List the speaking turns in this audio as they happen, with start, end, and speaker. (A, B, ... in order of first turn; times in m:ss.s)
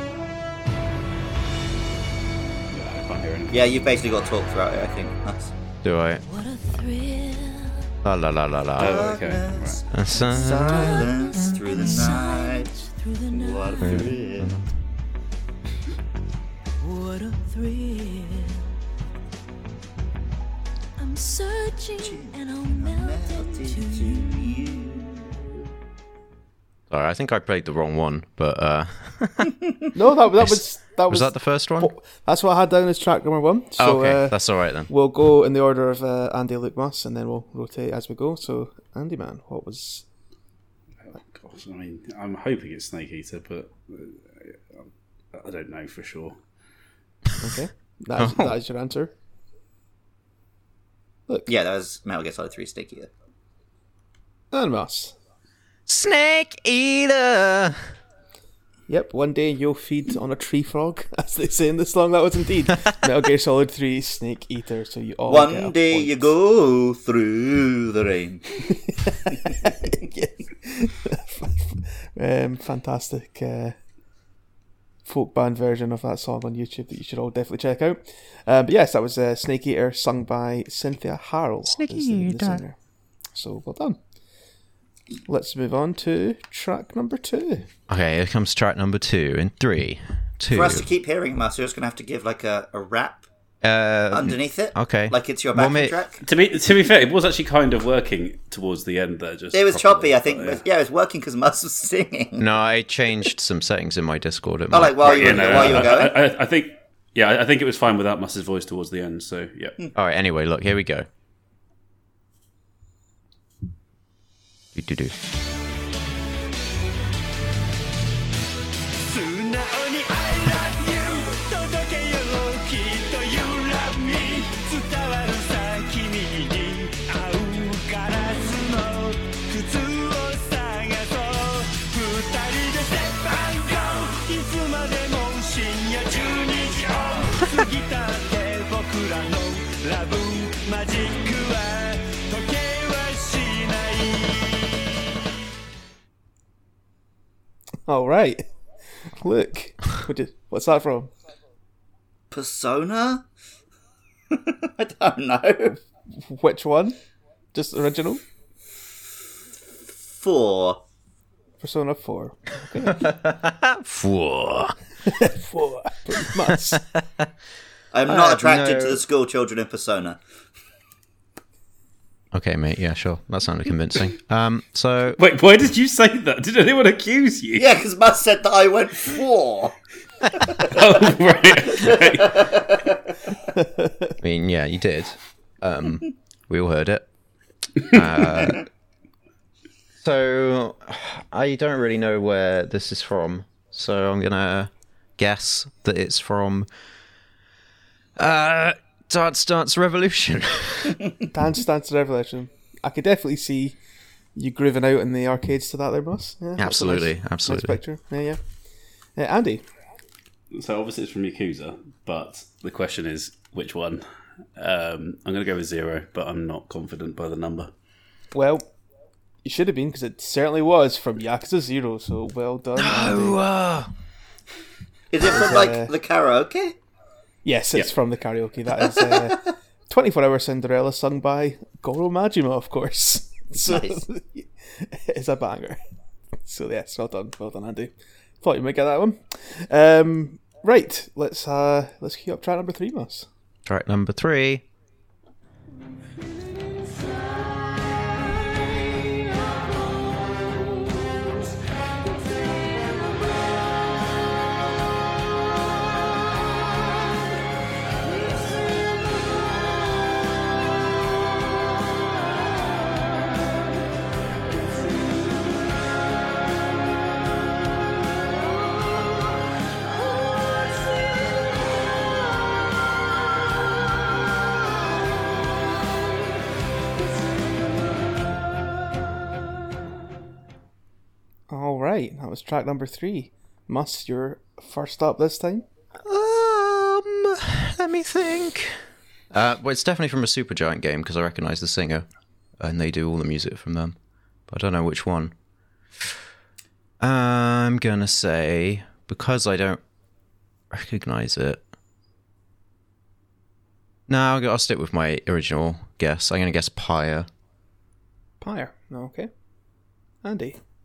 0:02.7-0:03.8 A
0:03.5-0:05.5 B
0:05.8-0:06.2 C
0:06.2-0:07.9 D
0:08.0-0:09.1 C
0:08.8-0:09.8 A
0:08.8-0:12.7 B
0:09.9-0:11.1 C
0:10.1-0:14.4 D
0:13.3-0:14.6 B
0:13.8-0:14.7 C
0:16.8-0:18.7 D
0:21.0-0:24.9 D
0:22.0-0:25.4 B
0:26.9-0:29.5 C
0:29.9-0:40.0 E
0:30.4-0:31.9 C
0:33.8-0:34.9 C
0:41.1-0:46.4 A
0:47.4-0:49.1 E
0:48.2-0:48.5 C
0:51.5-0:53.1 B
0:54.5-0:55.1 E
0:55.9-0:57.8 C
0:58.9-1:06.3 E
1:05.3-1:08.4 B
1:08.9-1:13.8 E
1:15.0-1:22.8 E
1:21.7-1:22.6 C
1:23.3-1:24.0 E
1:25.3-1:27.7 E
1:27.9-1:30.9 C
1:30.5-1:33.2 B
1:33.6-1:36.0 C
1:34.1-1:36.2 B
1:36.2-1:40.6 A
1:39.5-1:42.5 B
1:42.4-1:46.0 C
1:44.7-1:46.2 B
1:45.0-1:49.8 A
1:49.9-1:51.1 C
1:54.7-1:55.1 C
1:59.0-2:24.6 F
2:27.9-2:28.4 E
2:29.2-2:31.1 E
2:32.3-2:33.2 B
2:34.3-2:35.8 B
2:36.1-2:37.0 E
2:37.5-2:38.2 E
2:40.1-2:40.8 B
2:41.6-2:43.1 E
2:42.9-2:44.7 C
2:45.0-2:46.8 E
2:47.9-2:50.2 B
2:48.1-2:49.0 C
2:52.3-2:55.2 C
2:55.2-2:57.8 A
2:57.6-2:59.7 B
3:00.3-3:00.8 B
3:00.6-3:02.6 A
3:01.7-3:03.0 B
3:03.5-3:04.1 E
3:04.2-3:07.0 C
3:07.8-3:08.6 C
3:10.0-3:16.7 C
3:18.2-3:21.0 C
3:21.3-3:23.8 E
3:24.3-3:28.4 E
3:26.6-3:27.8 C
3:29.2-3:29.6 E
3:30.5-3:37.7 A
3:38.3-3:38.6 E
3:39.4-3:43.4 E
3:42.8-3:43.9 C
3:45.1-3:46.8 B
3:45.2-3:45.9 E
3:47.4-3:55.8 E
3:53.6-3:54.0 B
3:56.4-4:03.3 E
4:03.6-4:04.6 C
4:41.5-4:45.6 E
4:46.0-4:48.8 C
4:49.3-4:52.0 C
4:52.6-4:54.0 C
4:54.5-4:55.3 C
4:57.0-4:59.8 C
5:00.7-5:01.6 C
5:04.1-5:07.3 C
5:08.4-5:09.3 E
5:10.2-5:10.6 E